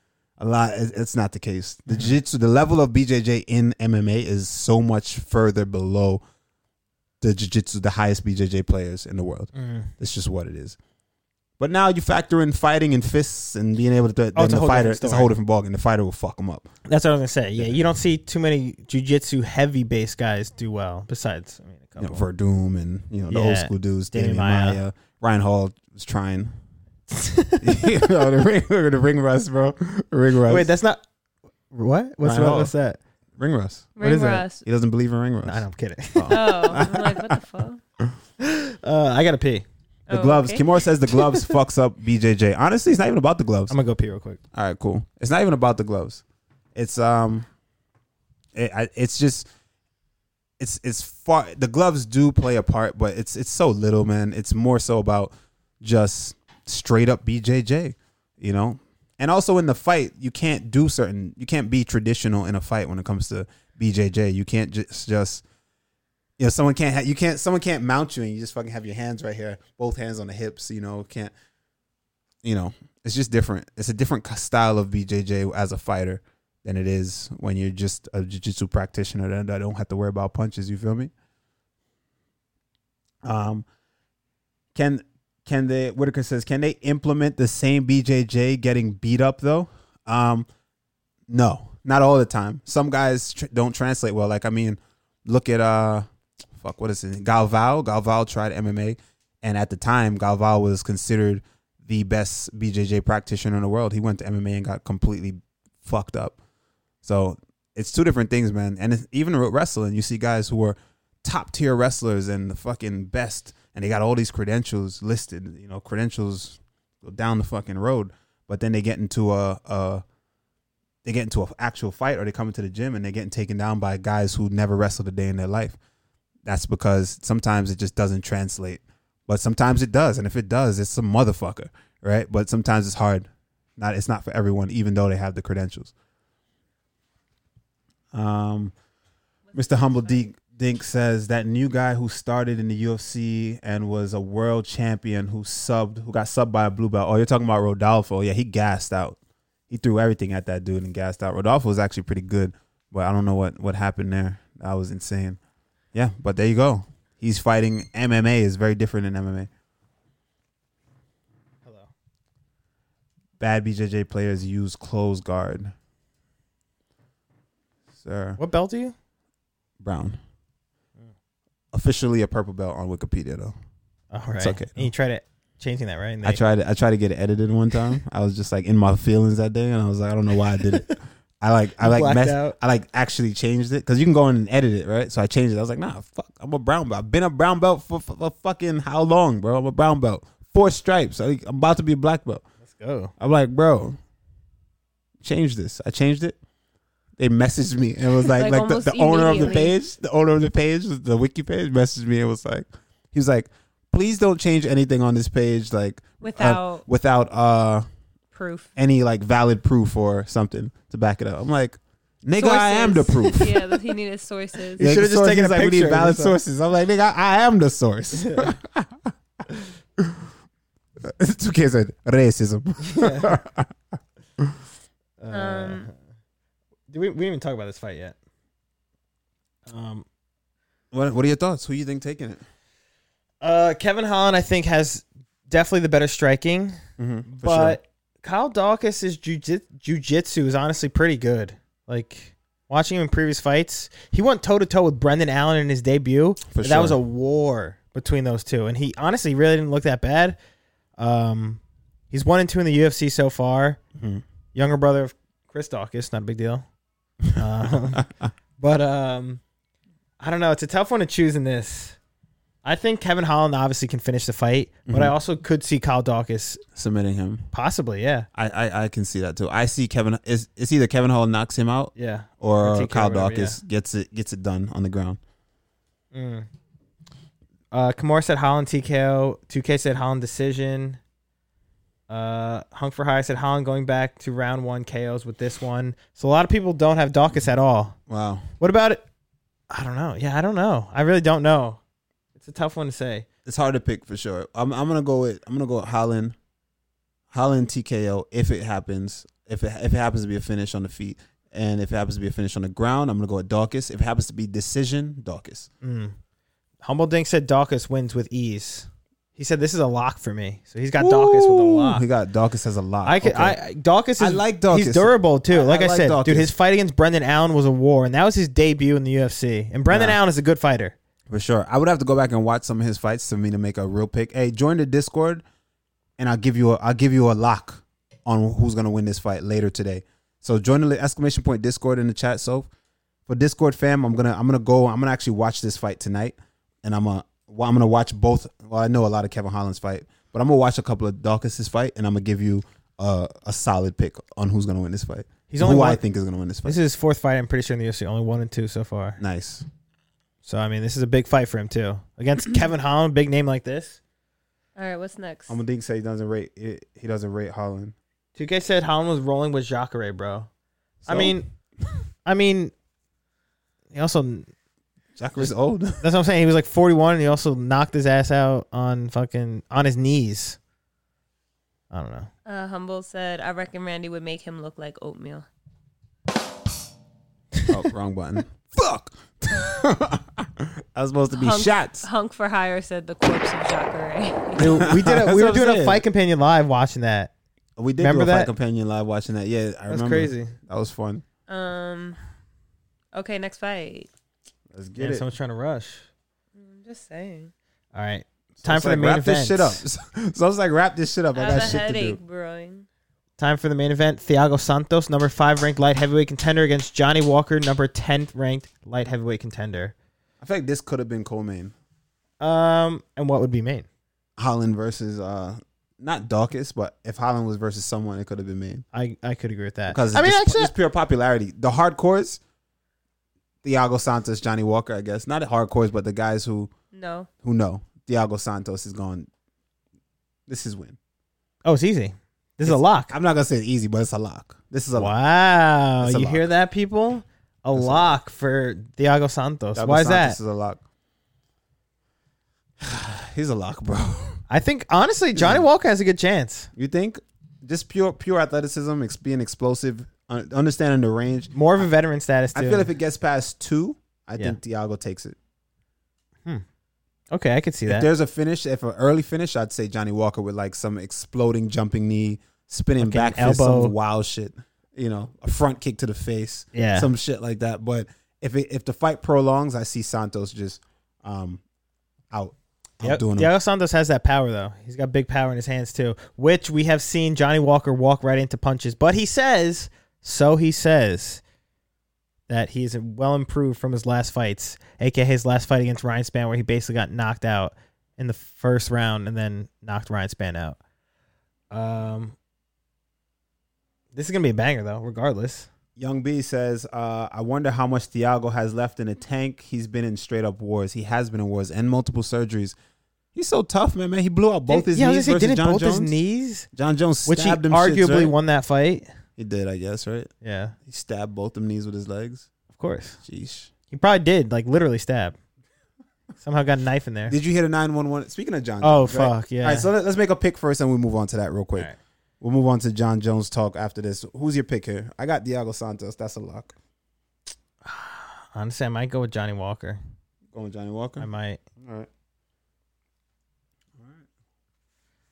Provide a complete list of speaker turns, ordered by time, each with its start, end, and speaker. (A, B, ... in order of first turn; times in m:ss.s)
0:00.4-0:06.2 A
0:07.2-0:10.8 A
0:09.6-0:09.9 B
0:11.6-0:16.6 A
0:14.4-0:15.3 B
0:16.8-0:22.3 B
0:17.6-0:17.8 A
0:22.0-0:26.5 A
0:23.3-0:24.8 B
0:27.1-0:28.0 B
0:27.6-0:30.7 A
0:30.5-0:31.0 B
0:31.7-0:33.0 B
0:32.2-0:32.7 A
0:33.4-0:33.9 A
0:34.0-0:34.6 C
0:34.0-0:34.4 B
0:34.6-0:35.6 A
0:35.4-0:36.8 B
0:36.1-0:37.4 A
0:36.3-0:37.8 C
0:38.4-0:39.6 B
0:40.1-0:40.6 C
0:40.1-0:43.7 A
0:43.7-0:44.4 B
0:44.5-0:46.2 A
0:46.7-0:47.5 A
0:48.6-0:49.5 A
0:50.6-1:05.4 A
1:06.4-1:11.3 A
1:12.4-1:21.1 A
1:23.2-1:23.6 A
1:24.7-1:30.5 A
1:31.3-1:36.0 A
1:36.6-1:46.4 A
1:47.0-2:00.0 A
2:01.0-2:05.8 A
2:06.4-2:15.9 A
2:18.1-2:18.7 A
2:19.5-2:29.2 A
2:29.7-2:35.4 A
2:35.9-2:39.5 A
2:41.6-2:41.9 B
2:43.4-2:45.7 A
2:48.0-2:48.4 A
2:48.4-2:48.9 B
2:49.8-2:50.2 A
2:51.7-2:53.6 A
2:54.1-2:56.4 B
2:54.4-2:54.9 A
2:56.2-3:12.4 A
3:00.7-3:01.0 B
3:01.8-3:02.6 B
3:12.6-3:13.1 B
3:13.2-3:14.0 A
3:15.2-3:16.4 A
3:17.2-3:27.8 A
3:18.2-3:19.7 C
3:26.2-3:26.8 C
3:28.3-3:28.7 C
3:28.8-3:33.8 A
3:32.4-3:34.8 C
3:34.8-3:39.1 A
3:34.8-3:36.4 B
3:38.2-3:38.5 B
3:40.0-3:40.2 A
3:41.0-3:43.7 A
3:42.8-3:43.4 B
3:45.2-3:45.9 B
3:45.3-3:45.9 C
3:46.9-3:48.1 B
3:49.7-3:50.0 B
3:50.9-3:52.4 A
3:53.4-3:56.8 B
3:57.0-3:57.8 A
3:57.3-4:10.4 B
4:06.5-4:07.0 A
4:11.0-4:11.6 B
4:12.1-4:13.8 B
4:14.0-4:14.2 A
4:14.5-4:16.6 B
4:17.4-4:18.0 B
4:17.9-4:18.3 A
4:18.6-4:19.4 B
4:20.2-4:22.0 B
4:22.6-4:26.6 B
4:24.9-4:25.1 A
4:26.7-4:27.5 A
4:27.5-4:28.3 B
4:28.4-4:35.2 A
4:32.0-4:33.6 B
4:36.1-4:36.5 B
4:37.7-4:41.0 B
4:42.1-4:48.0 B
4:48.1-4:48.4 A
4:48.6-4:49.0 B
4:49.7-4:51.8 B
4:52.4-4:53.3 B
4:53.4-4:56.4 A
4:57.3-5:05.7 A
5:05.8-5:06.2 B
5:06.8-5:12.0 B
5:11.0-5:13.6 A
5:13.0-5:20.9 B
5:14.2-5:16.5 A
5:19.9-5:20.2 A
5:21.3-5:25.4 A
5:26.2-5:32.7 A
5:33.3-5:46.8 A
5:45.5-5:46.0 B
5:46.6-5:49.2 B
5:49.2-5:49.6 A
5:50.4-5:54.0 B
5:54.8-5:55.6 C
5:55.5-5:57.9 A
5:58.4-6:00.5 B
6:01.0-6:01.4 A
6:01.0-6:01.5 B
6:02.2-6:02.7 B
6:03.9-6:04.5 B
6:05.2-6:06.0 A
6:06.0-6:10.6 B
6:11.9-6:12.3 B
6:12.4-6:15.4 C
6:17.7-6:22.1 A
6:21.3-6:24.8 C
6:24.6-6:27.3 B
6:24.6-6:26.0 A
6:27.8-6:31.2 A
6:28.0-6:28.5 B
6:29.9-6:30.6 B
6:31.5-6:32.2 C
6:33.1-6:34.1 C
6:34.7-6:35.3 A
6:35.0-6:36.0 B
6:36.6-6:37.5 C
6:37.9-6:39.8 B
6:38.6-6:42.2 A
6:41.4-6:42.8 C
6:43.4-6:49.9 B
6:50.4-6:51.7 A
6:52.4-6:53.8 B
6:54.4-6:58.8 A
6:58.9-7:00.7 B
6:59.9-7:02.4 A
7:03.6-7:06.7 A
7:06.9-7:07.3 C
7:07.4-7:09.3 A
7:10.5-7:11.0 A
7:11.6-7:13.1 B
7:12.6-7:15.1 A
7:14.9-7:20.4 B
7:16.0-7:16.5 A
7:17.7-7:18.1 A
7:19.7-7:20.8 A
7:22.8-7:24.4 A
7:24.5-7:26.7 B
7:25.4-7:25.6 A
7:26.8-7:31.8 A
7:31.5-7:32.9 B
7:32.5-7:35.4 A
7:37.3-7:38.1 B
7:37.8-7:51.6 A
7:43.0-7:43.9 B
7:46.7-7:47.1 B
7:52.3-7:53.5 A
7:53.0-8:01.4 B
8:02.5-8:10.8 B
8:11.7-8:12.4 B
8:14.1-8:15.7 B
8:16.0-8:22.8 A
8:23.4-8:26.1 A
8:24.7-8:26.7 B
8:26.7-8:28.4 A
8:27.3-8:29.1 B
8:29.4-8:30.3 A
8:30.4-8:30.7 B
8:30.8-8:32.5 A
8:32.7-8:33.2 B
8:33.2-8:33.7 A
8:33.9-8:35.4 B
8:36.4-8:37.4 B
8:37.3-8:41.9 A
8:38.8-8:39.9 B
8:42.4-8:46.7 A
8:47.8-8:50.0 B
8:50.5-8:51.3 A
8:51.2-8:51.6 B
8:51.8-8:52.1 A